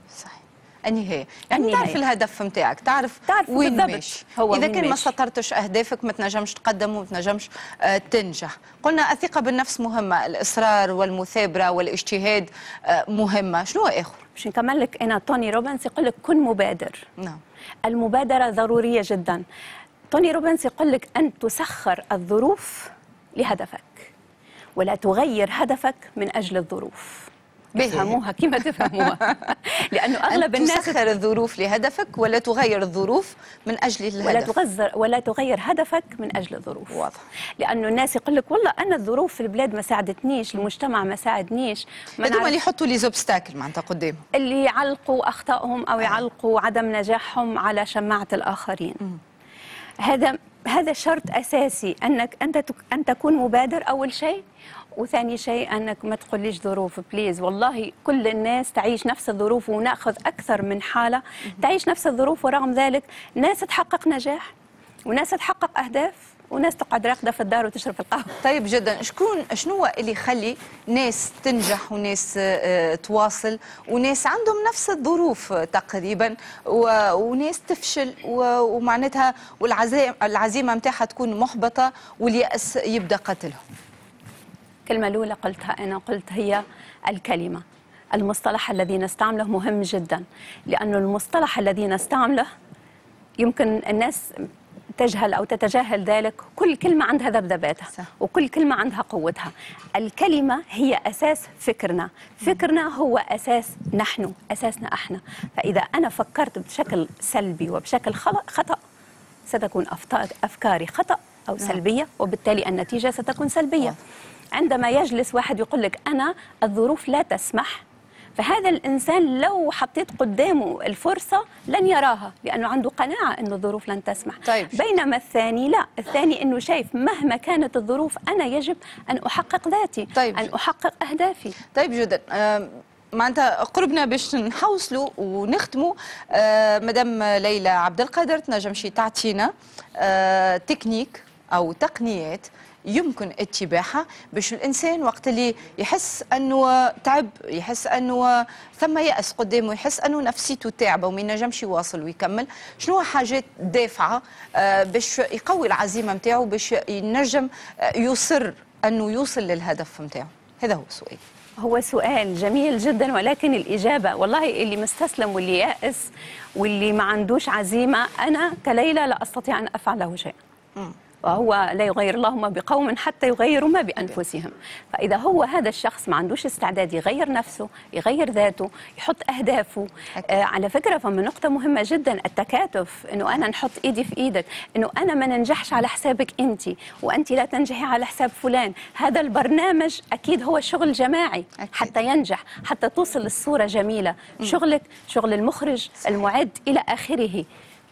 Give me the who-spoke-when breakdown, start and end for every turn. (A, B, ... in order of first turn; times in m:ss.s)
0:00.1-0:14.2 A
0:01.6-0:02.0 B
0:03.3-0:05.1 B
0:14.4-0:17.0 B
0:17.9-0:19.4 B
0:20.1-0:24.1 B
0:24.8-0:27.3 B
0:27.8-0:28.2 A
0:27.8-0:31.0 B
0:30.4-0:34.5 A
0:34.2-0:37.0 B
0:36.9-0:37.2 A
0:37.6-0:42.6 B
0:42.2-0:44.2 A
0:44.4-0:49.0 B
0:50.0-0:54.4 B
0:55.0-1:04.5 B
1:05.1-1:08.4 B
1:08.4-1:23.6 A
1:24.9-1:27.6 B
1:28.1-1:32.5 B
1:33.4-1:34.2 B
1:35.0-1:48.8 B
1:49.5-1:54.0 B
1:54.6-1:57.8 B
1:58.4-2:11.6 B
2:04.5-2:04.8 A
2:10.2-2:10.5 A
2:11.7-2:41.2 A
2:41.6-2:50.4 B
2:51.2-3:17.5 B
3:11.6-3:11.9 A